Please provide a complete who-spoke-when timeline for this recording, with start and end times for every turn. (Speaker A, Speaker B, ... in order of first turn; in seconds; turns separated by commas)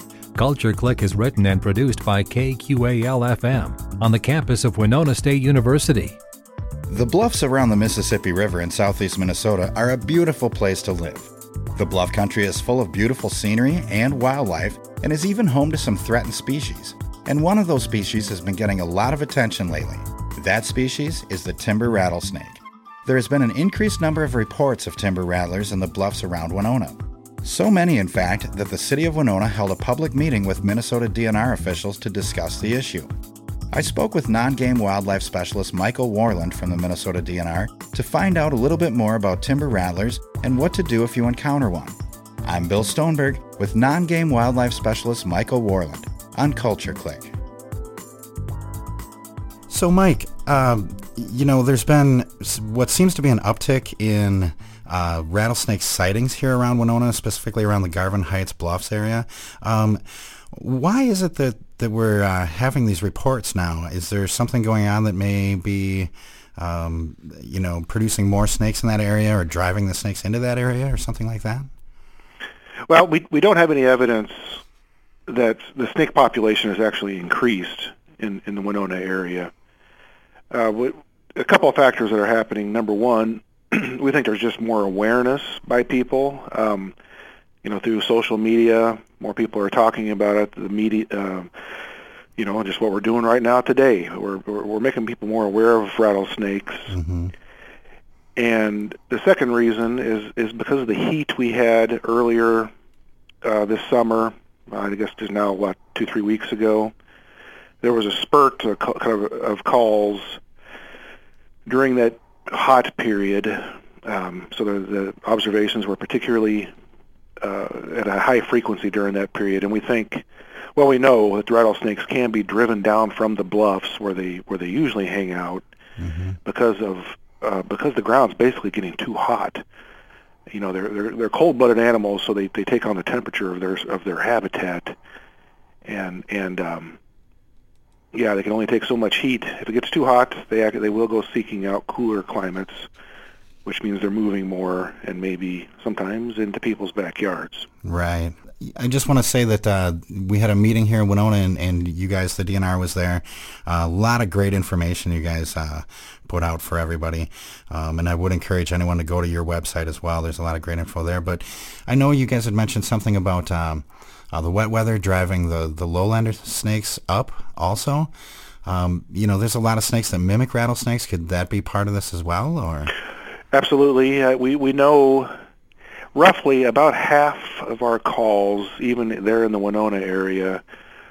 Speaker A: 0.3-6.2, Speaker B: 6.9-33.1, Speaker B: 33.7-47.3, Speaker B: 49.7-71.7, Speaker C: 72.9-74.6, Speaker C: 75.3-79.5, Speaker C: 80.5-86.9, Speaker C: 87.6-91.5, Speaker C: 92.4-97.0, Speaker B: 96.9-97.3, Speaker C: 98.3-102.7, Speaker C: 103.4-106.9, Speaker C: 107.8-110.4, Speaker C: 111.7-116.7, Speaker C: 117.4-125.6, Speaker B: 126.0-126.4, Speaker C: 126.4-129.6, Speaker C: 130.5-135.0, Speaker C: 135.8-137.0, Speaker C: 138.1-142.9, Speaker C: 143.6-147.7, Speaker B: 147.8-168.1, Speaker B: 168.6-172.9, Speaker C: 173.5-175.3, Speaker C: 176.1-180.6